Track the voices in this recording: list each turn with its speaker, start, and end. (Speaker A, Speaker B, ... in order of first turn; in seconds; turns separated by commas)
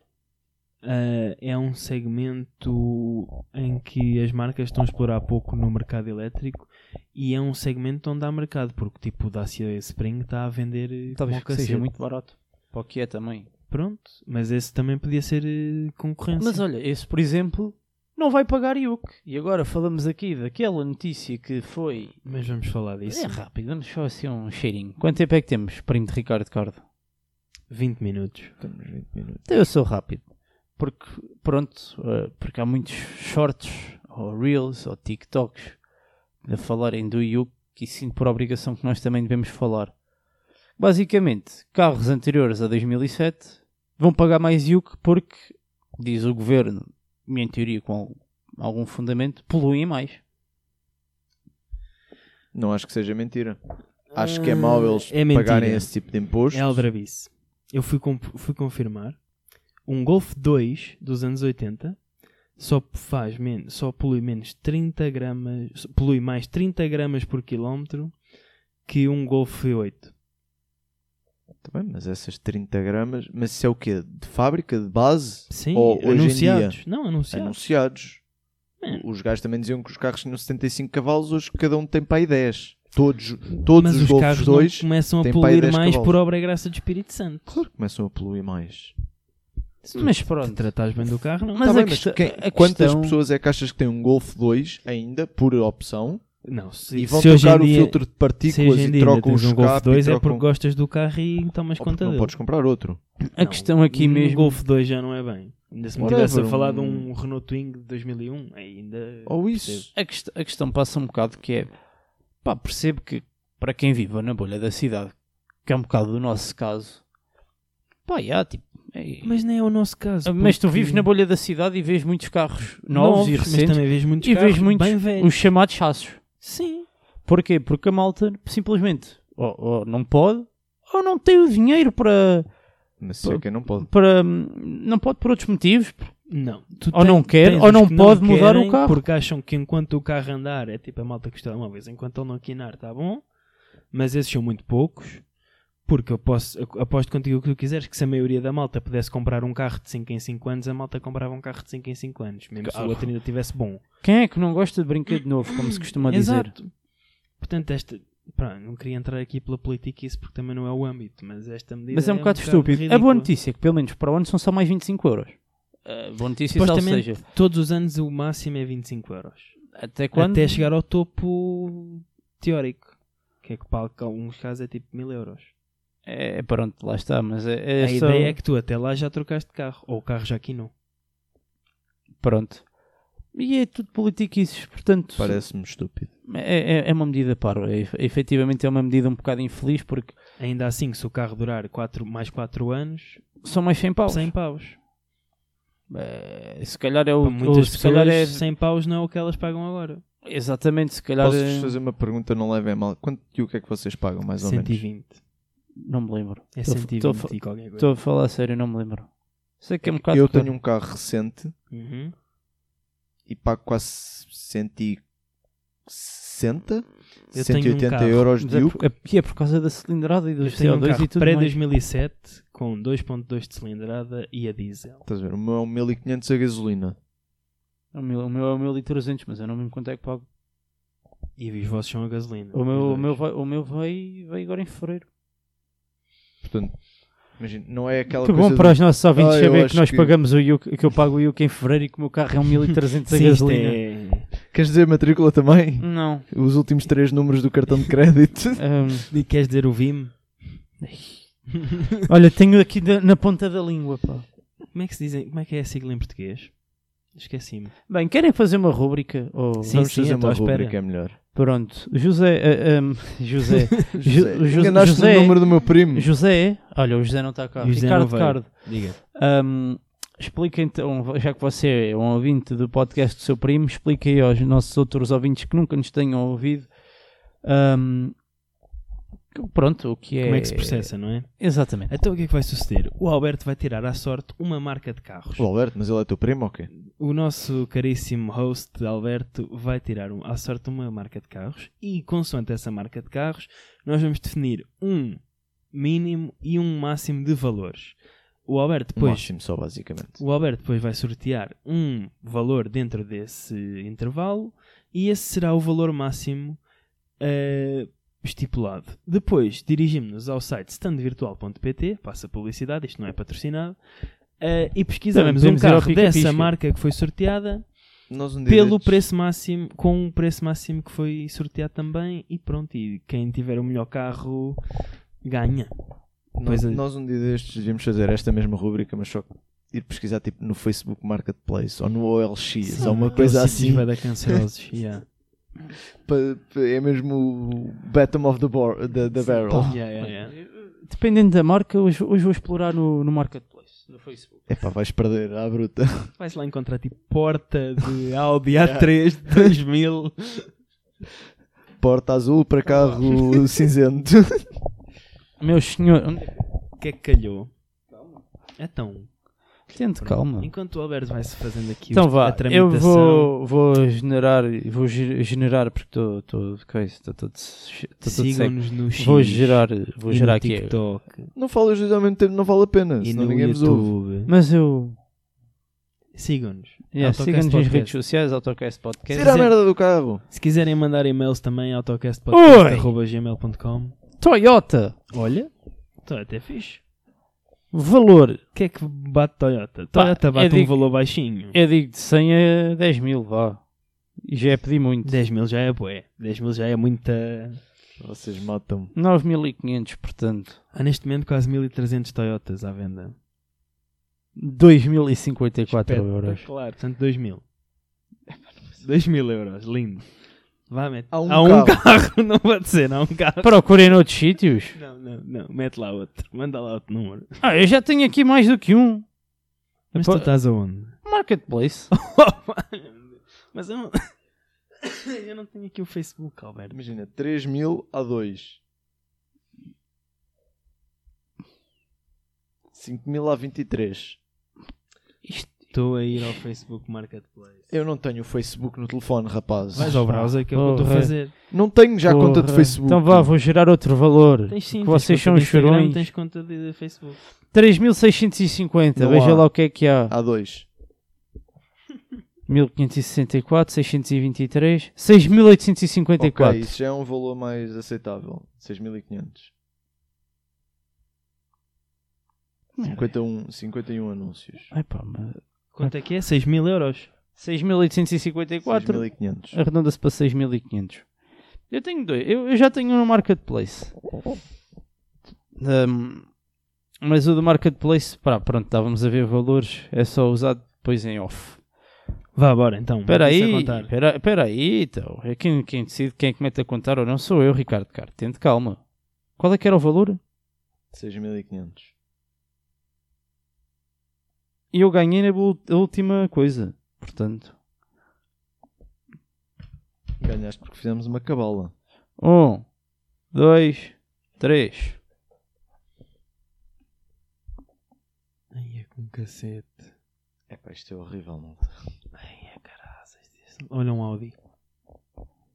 Speaker A: 0.8-11.9, Speaker B: 11.1-13.5, Speaker A: 13.7-16.6, Speaker B: 16.4-22.2, Speaker A: 22.2-23.4, Speaker B: 23.1-26.8, Speaker A: 27.7-28.5, Speaker C: 28.6-29.4, Speaker B: 29.4-30.2, Speaker B: 30.8-35.8, Speaker B: 36.4-39.9, Speaker B: 40.8-50.2, Speaker C: 52.5-53.6, Speaker C: 54.1-56.8, Speaker A: 54.1-59.2, Speaker A: 59.8-62.0, Speaker A: 62.6-68.2, Speaker A: 68.8-70.1, Speaker C: 71.6-78.2, Speaker A: 75.5-77.6, Speaker C: 78.9-86.2, Speaker A: 83.6-87.6, Speaker C: 87.5-88.9, Speaker A: 89.8-91.7, Speaker B: 89.9-90.6, Speaker B: 91.5-93.2, Speaker C: 91.6-96.2, Speaker A: 96.4-102.3, Speaker C: 96.9-100.4, Speaker C: 101.8-103.0, Speaker B: 103.3-104.6, Speaker A: 103.4-109.9, Speaker C: 106.0-107.1, Speaker C: 109.2-109.9, Speaker B: 109.9-111.7, Speaker B: 112.4-115.1, Speaker B: 115.6-117.0, Speaker B: 118.0-119.3, Speaker A: 119.2-121.1, Speaker B: 120.2-126.2, Speaker A: 122.8-125.4, Speaker A: 126.4-126.9, Speaker B: 127.2-132.5, Speaker C: 133.0-133.9, Speaker B: 133.2-136.3, Speaker A: 136.3-143.2, Speaker B: 136.9-139.0, Speaker A: 143.9-145.2, Speaker A: 145.8-153.8, Speaker C: 152.6-153.1, Speaker B: 154.0-156.5, Speaker A: 155.5-156.7, Speaker A: 157.4-163.3, Speaker B: 161.9-167.2, Speaker A: 166.5-175.5, Speaker B: 169.7-170.7, Speaker B: 176.1-178.4, Speaker A: 177.8-180.7, Speaker B: 182.2-182.7, Speaker B: 183.3-185.4, Speaker C: 185.2-186.1, Speaker B: 186.2-190.2, Speaker A: 190.4-193.3, Speaker B: 193.4-194.3, Speaker A: 194.1-194.8, Speaker B: 195.9-198.4, Speaker A: 197.2-200.0, Speaker B: 200.2-201.8, Speaker C: 201.2-204.8, Speaker A: 204.4-205.2, Speaker B: 205.8-210.5, Speaker A: 206.5-207.9, Speaker C: 210.0-211.5, Speaker A: 211.7-212.1, Speaker C: 213.3-215.0, Speaker C: 215.8-218.8, Speaker A: 217.3-218.3, Speaker B: 218.4-221.6, Speaker A: 220.4-225.1, Speaker C: 225.1-226.9, Speaker B: 227.9-230.2, Speaker A: 231.4-233.2, Speaker B: 232.5-235.1, Speaker C: 236.4-236.8, Speaker C: 237.3-240.1, Speaker B: 238.2-243.8, Speaker A: 243.1-244.3, Speaker C: 244.5-248.6, Speaker B: 245.8-246.2, Speaker B: 248.6-249.1, Speaker A: 249.1-252.0, Speaker B: 252.1-254.2, Speaker A: 254.7-256.6, Speaker A: 257.1-257.7, Speaker B: 257.9-259.8, Speaker A: 259.6-260.8, Speaker C: 259.7-261.2, Speaker B: 261.3-276.7, Speaker C: 264.0-266.1, Speaker A: 267.6-269.0, Speaker B: 277.4-278.1, Speaker B: 279.3-281.9, Speaker A: 280.2-285.5, Speaker C: 285.4-286.7, Speaker A: 286.9-295.2, Speaker A: 295.7-299.4, Speaker C: 298.9-300.2, Speaker A: 300.2-306.6, Speaker A: 307.2-313.8, Speaker A: 314.4-317.7, Speaker B: 315.1-316.5, Speaker C: 318.1-319.0, Speaker A: 318.4-325.7, Speaker C: 326.4-334.4, Speaker A: 326.4-326.8, Speaker A: 332.6-335.0, Speaker B: 332.8-333.1, Speaker C: 336.0-339.8, Speaker A: 339.3-340.4, Speaker B: 339.5-344.4, Speaker C: 344.5-346.1, Speaker A: 346.2-350.5, Speaker C: 348.6-349.5, Speaker C: 351.8-354.5, Speaker B: 355.4-356.3, Speaker A: 356.8-357.5, Speaker A: 358.6-359.1, Speaker B: 359.7-360.5, Speaker A: 360.0-363.3, Speaker B: 361.9-370.8, Speaker A: 368.0-371.3, Speaker C: 371.3-373.9, Speaker A: 373.0-374.3, Speaker B: 374.3-375.0, Speaker A: 376.1-377.9, Speaker B: 376.9-379.3, Speaker C: 379.1-380.2, Speaker A: 379.1-379.7, Speaker A: 380.3-384.0, Speaker B: 382.3-382.9, Speaker B: 384.2-385.0, Speaker A: 385.1-385.5, Speaker A: 386.0-386.8, Speaker B: 387.7-388.4, Speaker A: 388.5-391.6, Speaker B: 389.9-390.8, Speaker B: 391.5-393.6, Speaker B: 394.2-395.2, Speaker A: 395.0-397.6, Speaker C: 398.0-398.9, Speaker B: 398.9-400.6, Speaker A: 400.7-403.1, Speaker B: 404.4-406.4, Speaker A: 405.7-407.4, Speaker A: 408.8-410.1, Speaker A: 410.7-413.6, Speaker C: 411.1-411.8, Speaker B: 413.4-414.8, Speaker A: 414.7-417.3, Speaker B: 417.4-419.0, Speaker A: 419.9-421.0, Speaker B: 419.9-420.3, Speaker B: 421.0-421.9, Speaker A: 421.9-424.1, Speaker A: 424.8-426.8, Speaker C: 426.7-428.6, Speaker C: 432.7-434.2, Speaker B: 435.2-435.7, Speaker A: 435.7-437.6, Speaker C: 437.7-440.0, Speaker A: 439.7-441.3, Speaker B: 439.7-441.5, Speaker C: 441.5-443.3, Speaker B: 442.0-446.1, Speaker A: 444.5-447.2, Speaker B: 447.5-450.1, Speaker C: 448.9-450.7, Speaker B: 452.5-456.7, Speaker C: 456.2-459.5, Speaker B: 462.8-463.1, Speaker C: 462.8-464.7, Speaker B: 464.7-465.9, Speaker A: 465.7-467.1, Speaker B: 467.4-471.1, Speaker C: 468.6-469.6, Speaker B: 471.7-473.9, Speaker B: 475.6-476.3, Speaker B: 477.0-481.6, Speaker A: 482.3-483.9, Speaker B: 483.1-488.8, Speaker B: 489.4-490.2, Speaker C: 490.9-491.9, Speaker B: 494.7-497.5, Speaker C: 500.2-501.7, Speaker B: 502.2-502.6, Speaker B: 503.3-505.0, Speaker A: 508.5-509.9, Speaker C: 510.5-511.7, Speaker A: 512.2-514.3